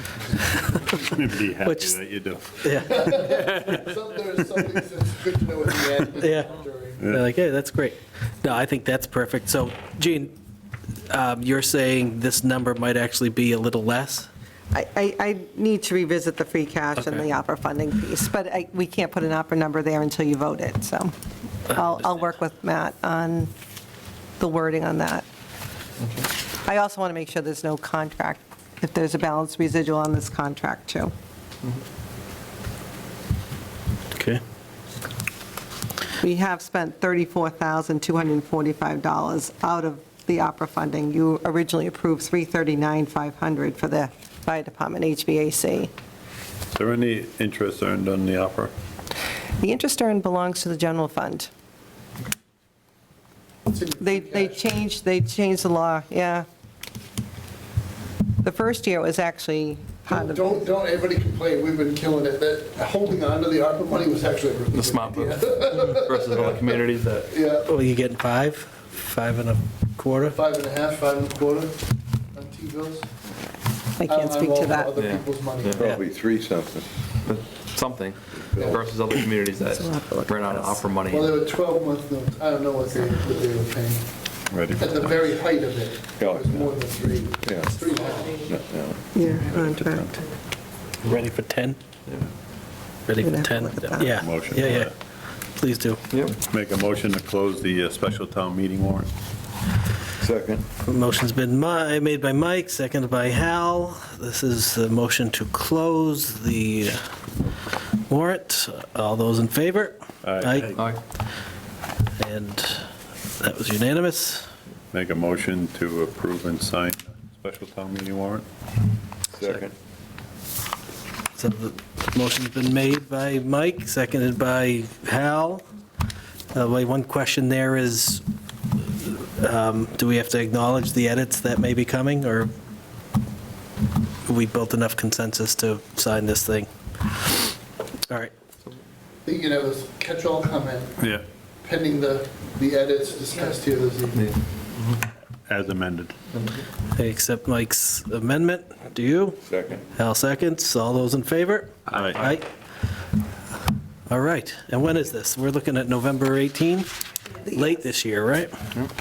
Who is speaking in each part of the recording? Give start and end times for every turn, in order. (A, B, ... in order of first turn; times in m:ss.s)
0:00.3-0:00.9 A
0:01.0-0:02.7 B
0:01.6-0:01.9 A
0:02.6-0:03.2 A
0:02.8-0:07.0 C
0:06.2-0:06.5 A
0:07.0-0:10.3 A
0:11.1-0:14.3 A
0:14.7-0:21.1 D
0:21.7-0:23.5 D
0:24.4-0:25.2 D
0:26.6-0:31.1 D
0:34.1-0:34.4 A
0:36.2-0:45.9 D
0:46.7-0:48.7 B
0:49.6-0:51.5 D
0:53.7-0:54.7 C
0:54.0-0:56.4 D
0:58.4-1:00.6 D
1:00.0-1:07.7 C
1:04.7-1:07.3 E
1:07.6-1:10.4 A
1:10.3-1:13.1 C
1:14.0-1:14.9 D
1:14.0-1:15.8 C
1:15.0-1:16.0 E
1:15.8-1:16.9 F
1:17.2-1:21.4 E
1:18.5-1:18.8 F
1:19.7-1:20.8 D
1:21.1-1:28.6 C
1:24.5-1:25.2 B
1:26.2-1:26.8 F
1:27.4-1:27.8 F
1:28.4-1:29.0 F
1:29.1-1:30.2 D
1:31.0-1:31.8 A
1:33.0-1:34.9 A
1:33.2-1:34.2 D
1:34.2-1:34.9 B
1:35.6-1:36.0 A
1:36.4-1:39.1 B
1:40.2-1:40.6 F
1:40.8-1:47.1 A
1:48.1-1:50.7 A
1:50.2-1:50.9 B
1:52.2-1:52.9 A
1:53.4-1:54.5 A
1:54.9-1:58.4 B
1:59.3-1:59.7 F
2:01.3-2:05.6 A
2:06.5-2:08.2 A
2:08.8-2:12.5 A
2:14.2-2:16.7 A
2:19.2-2:21.0 C
2:21.0-2:21.2 B
2:21.6-2:24.4 C
2:24.2-2:25.0 E
2:25.5-2:26.2 B
2:26.3-2:26.6 E
2:26.9-2:32.4 A
2:29.4-2:29.8 F
2:31.9-2:32.3 B
2:34.1-2:38.5 A